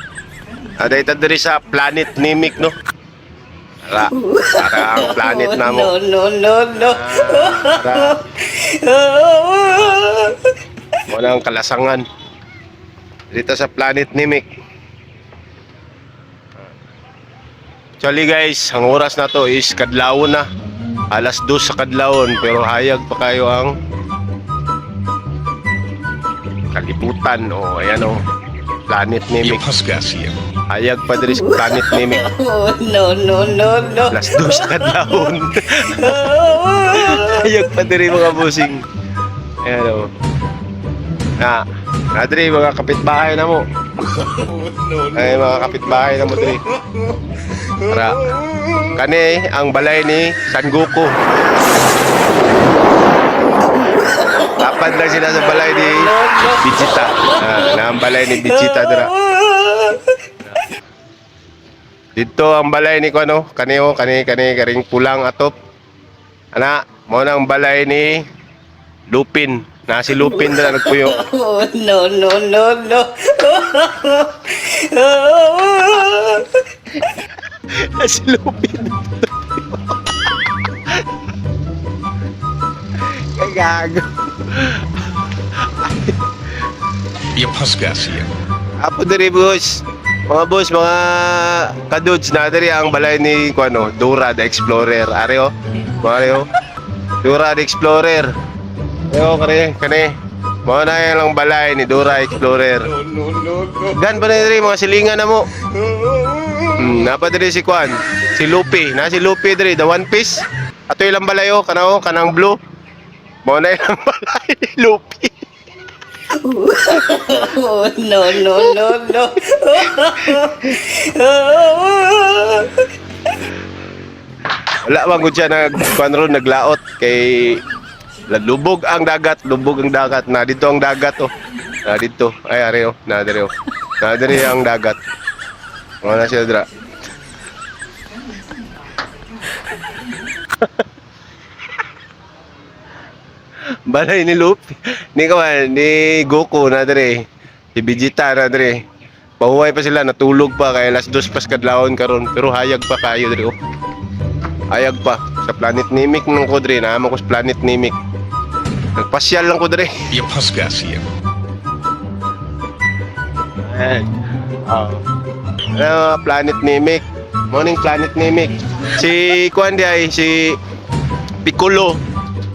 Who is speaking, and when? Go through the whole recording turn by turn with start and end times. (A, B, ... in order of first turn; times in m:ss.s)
0:00.8-0:02.7 A
0:03.8-0:05.9 A
0:04.1-0:10.5 B
0:06.8-0:08.2 A
0:11.1-0:12.0 A
0:13.3-0:14.5 A
0:18.0-0:20.4 A
0:21.1-0:23.7 A
0:26.7-0:28.2 A
0:28.9-0:29.6 A
0:29.4-0:30.4 C
0:30.7-0:32.3 A
0:31.3-0:35.2 B
0:34.1-0:38.8 A
0:35.8-0:37.4 B
0:39.6-0:40.1 A
0:42.1-0:43.6 A
0:45.1-0:46.6 A
0:47.8-0:48.3 A
0:48.9-0:51.1 A
0:54.0-1:00.2 B
0:54.6-0:59.1 A
1:02.1-1:05.5 A
1:06.5-1:08.2 A
1:09.1-1:11.2 A
1:10.2-1:16.6 B
1:17.7-1:20.1 A
1:23.3-1:24.8 A
1:25.7-1:26.1 A
1:27.3-1:28.3 C
1:28.8-1:36.5 A
1:37.2-1:38.3 A
1:39.1-1:40.1 A
1:40.6-1:43.0 A
1:43.7-1:45.5 A
1:46.7-1:52.6 A
1:53.4-1:55.4 A
1:56.3-2:02.9 B
2:04.9-2:07.6 A
2:08.3-2:11.3 A
2:11.8-2:15.0 A
2:16.0-2:16.7 A
2:23.9-2:28.8 A
2:29.4-2:33.5 A
2:34.7-2:38.0 A
2:39.0-2:40.1 A
2:40.1-2:41.1 C
2:43.7-2:44.1 A
2:44.7-2:45.0 A
2:45.7-2:50.6 A
2:51.4-2:52.0 A